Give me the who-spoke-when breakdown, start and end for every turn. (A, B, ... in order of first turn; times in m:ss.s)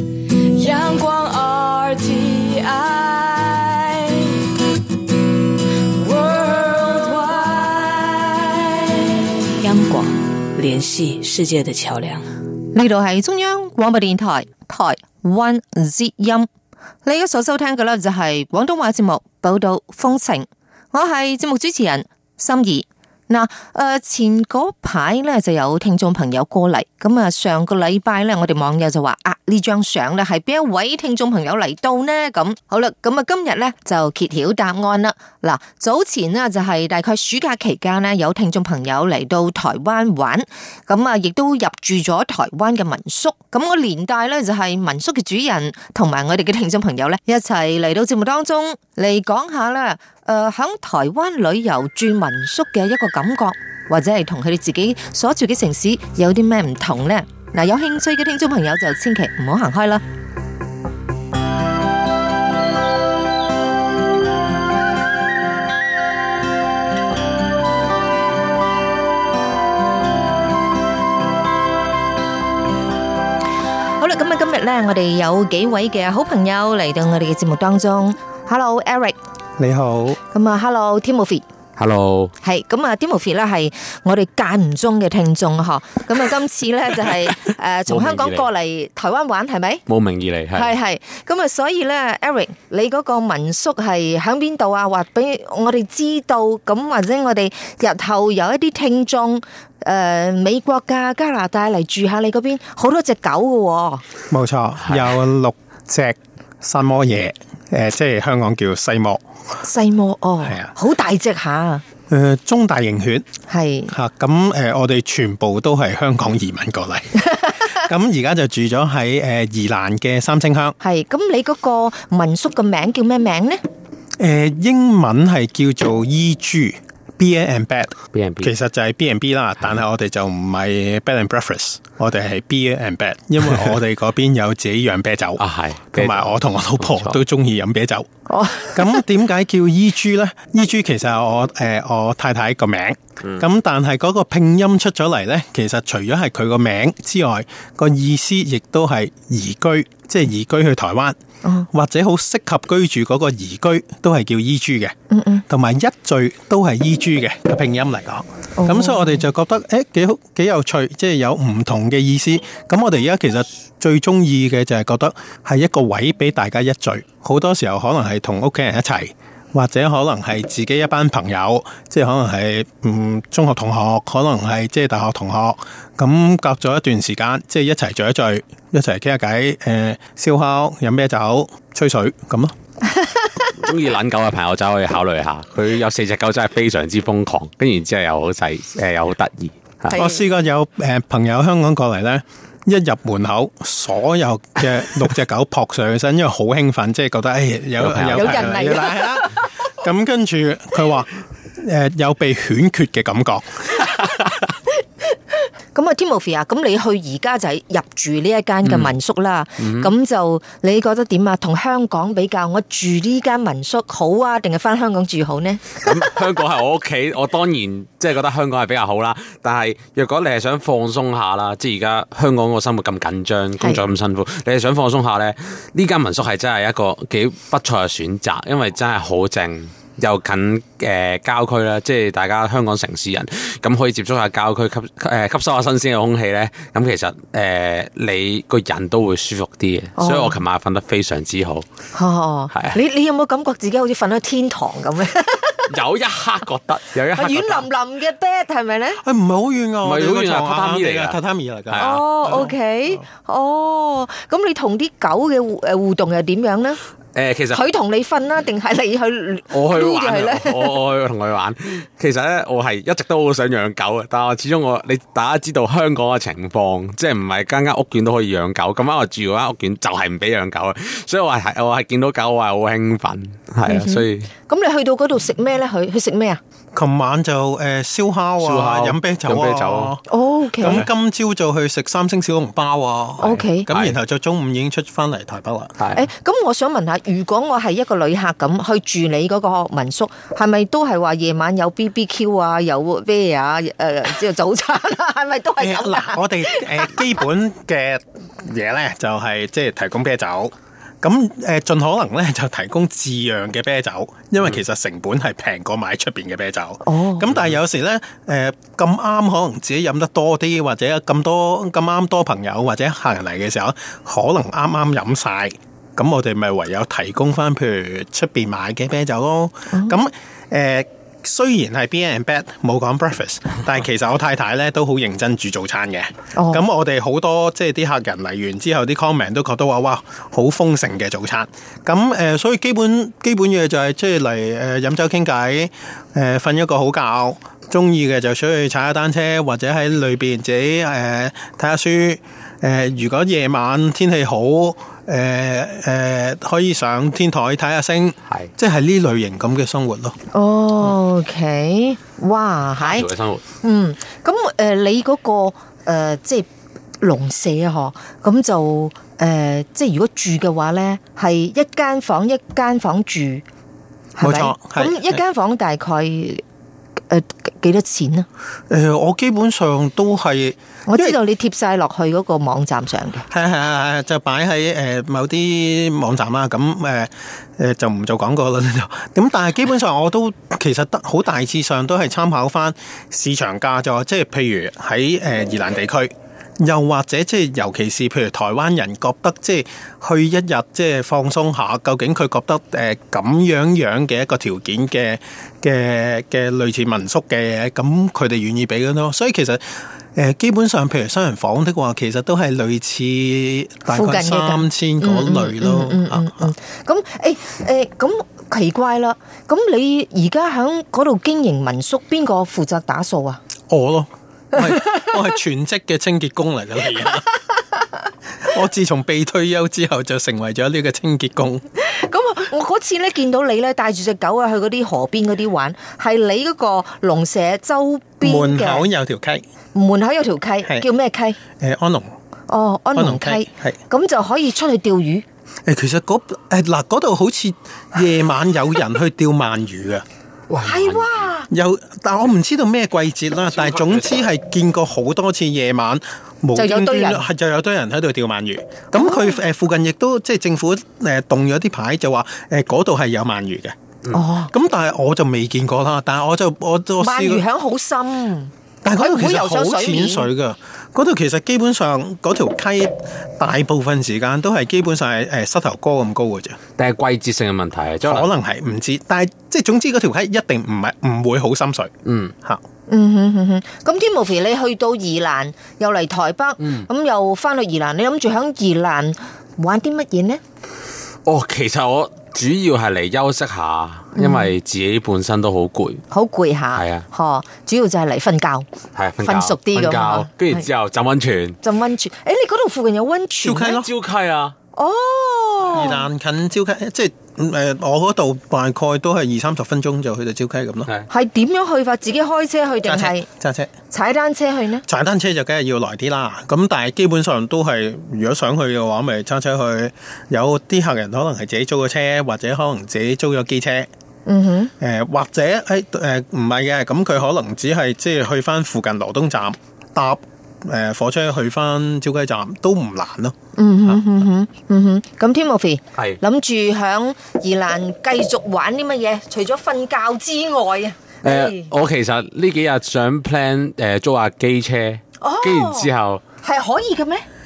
0:00.5-0:04.4 A
0:06.0-0:09.2 A
0:09.6-0:12.3 B
0:12.7-0:16.5 C
0:17.0-1:00.0 C
1:14.0-1:19.2 C
1:19.6-1:20.2 D
1:20.3-1:21.4 C
1:21.8-1:22.3 E
1:22.4-1:29.8 C
1:27.9-1:28.5 E
1:29.9-1:30.7 E
1:30.5-1:44.0 C
1:44.3-1:49.2 D
1:49.6-1:51.8 C
1:50.4-1:50.7 D
1:52.1-1:53.3 D
1:53.5-1:53.9 C
1:53.9-2:00.8 D
2:00.8-2:03.6 C
2:04.2-2:15.4 D
2:08.1-2:08.5 E
2:15.4-2:17.2 E
2:15.9-2:18.1 D
2:18.3-2:19.0 C
2:18.7-2:31.2 D
2:31.4-2:31.7 C
2:31.7-2:34.9 D
2:35.1-2:35.4 C
2:35.5-3:02.5 D
2:38.6-2:39.1 C
3:03.6-3:10.0 E
3:09.9-3:10.2 C
3:09.9-3:23.5 D
3:17.8-3:18.6 E
3:18.1-3:19.3 C
3:25.7-3:36.1 C
3:28.6-3:28.9 E
3:29.6-3:29.9 E
3:35.8-4:01.6 E
4:00.0-4:00.4 C
4:01.9-4:05.7 C
4:02.5-4:02.8 E
4:05.7-4:07.7 E
4:07.1-4:09.0 C
4:09.0-4:12.6 D
4:09.8-4:11.2 E
4:11.7-4:12.0 E
4:11.8-4:16.8 C
4:17.2-4:17.6 E
4:17.5-4:20.8 C
4:19.5-4:34.3 E
4:33.7-4:36.4 C
4:36.7-4:40.0 D
4:38.4-4:40.0 E
4:40.1-4:40.9 C
4:40.6-4:45.8 D
4:40.6-4:40.9 E
4:43.2-4:43.7 C
4:43.7-4:44.0 E
4:45.8-4:46.0 E
4:46.0-4:57.1 C
4:55.6-5:50.1 D
5:06.8-5:07.3 C
5:19.7-5:20.0 C
5:26.4-5:26.6 C
5:50.3-5:53.1 C
5:52.8-5:53.4 E
5:53.6-5:56.5 C
5:57.0-6:03.4 C
6:04.2-6:06.4 C
6:04.2-6:05.2 D
6:07.1-6:08.3 C
6:08.7-6:11.2 D
6:10.9-6:13.3 C
6:13.3-6:39.6 D
6:40.2-6:46.5 D
6:43.9-6:53.4 C
6:53.7-6:57.3 D
6:58.4-7:01.6 D
7:01.8-7:08.9 C
7:08.2-7:09.4 D
7:09.7-7:11.4 C
7:11.6-7:12.1 D
7:12.5-7:15.2 C
7:13.0-7:13.8 D
7:15.7-7:20.0 D
7:20.5-7:21.3 E
7:20.6-7:21.5 C
7:21.5-7:33.8 D
7:23.5-7:24.2 E
7:26.5-7:27.3 C
7:29.0-7:29.4 C
7:34.1-7:34.5 C
7:34.5-7:37.4 D
7:37.0-7:40.3 C
7:38.8-7:46.6 D
7:46.8-7:48.3 E
7:48.0-7:51.9 D
7:52.1-7:52.3 E
7:52.9-8:00.4 C
7:56.6-7:56.9 E
8:01.3-8:06.0 E
8:04.2-8:04.5 C
8:06.1-8:08.7 C
8:06.7-8:07.0 E
8:09.0-8:11.6 E
8:09.2-8:10.6 C
8:11.6-8:13.8 C
8:13.4-8:13.9 D
8:13.8-8:14.6 E
8:14.8-8:16.1 C
8:15.7-8:20.9 D
8:21.1-8:23.3 C
8:22.8-8:23.7 D
8:23.9-8:24.9 C
8:24.9-8:33.9 D
8:34.3-8:34.7 C
8:34.8-8:44.1 D
8:43.6-8:51.7 C
8:51.2-8:56.2 E
8:55.2-8:55.9 C
8:56.4-8:57.2 C